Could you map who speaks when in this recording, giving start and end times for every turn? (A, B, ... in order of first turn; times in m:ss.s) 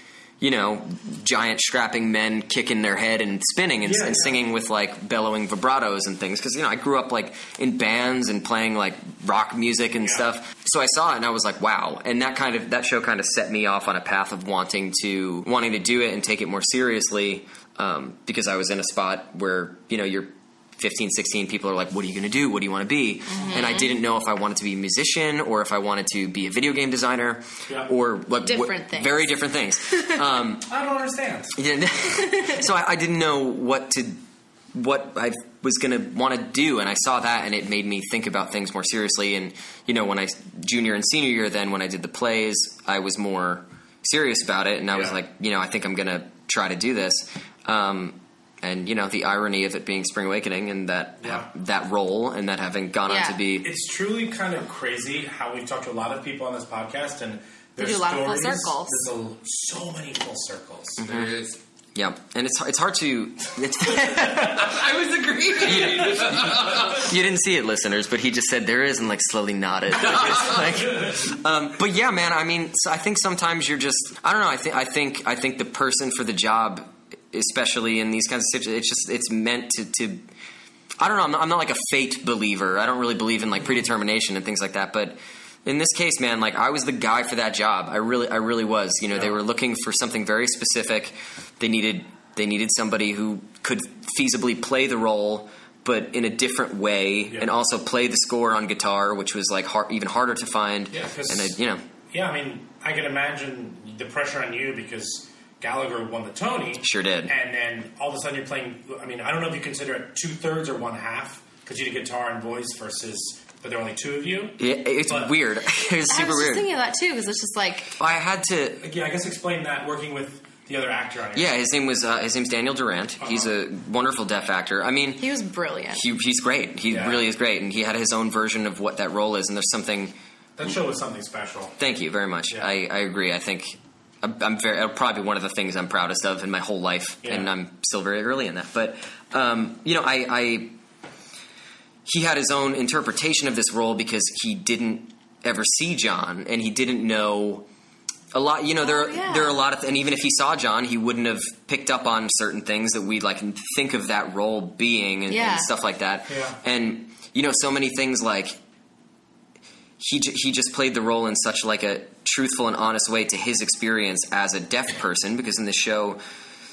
0:00.4-0:30.7 A
0:03.8-0:04.4 B
0:23.3-0:23.9 C
0:28.4-0:29.4 C
0:30.7-0:31.6 B
0:31.6-0:34.2 A
0:32.3-0:32.6 C
0:34.7-0:53.7 A
0:53.1-0:53.4 C
0:53.6-1:01.1 B
0:57.8-0:59.1 C
1:01.0-1:01.3 A
1:01.0-1:01.6 D
1:02.0-1:04.8 A
1:04.2-1:07.1 D
1:05.6-1:20.2 A
1:10.0-1:10.6 D
1:21.0-1:41.8 A
1:40.9-1:41.6 B
1:42.1-1:55.3 B
1:46.8-1:47.3 A
1:54.6-1:56.7 A
1:56.0-1:58.0 C
1:58.0-1:58.8 A
1:58.8-2:01.6 B
2:01.3-2:05.3 A
2:03.2-2:03.5 B
2:05.2-2:06.0 C
2:05.9-2:10.2 A
2:06.9-2:07.2 B
2:10.6-2:11.8 B
2:11.8-2:20.8 A
2:17.2-2:17.5 B
2:22.1-2:27.7 A
2:28.3-2:38.6 A
2:28.8-2:29.6 C
2:35.3-2:35.7 C
2:36.3-2:36.6 B
2:40.0-2:46.2 A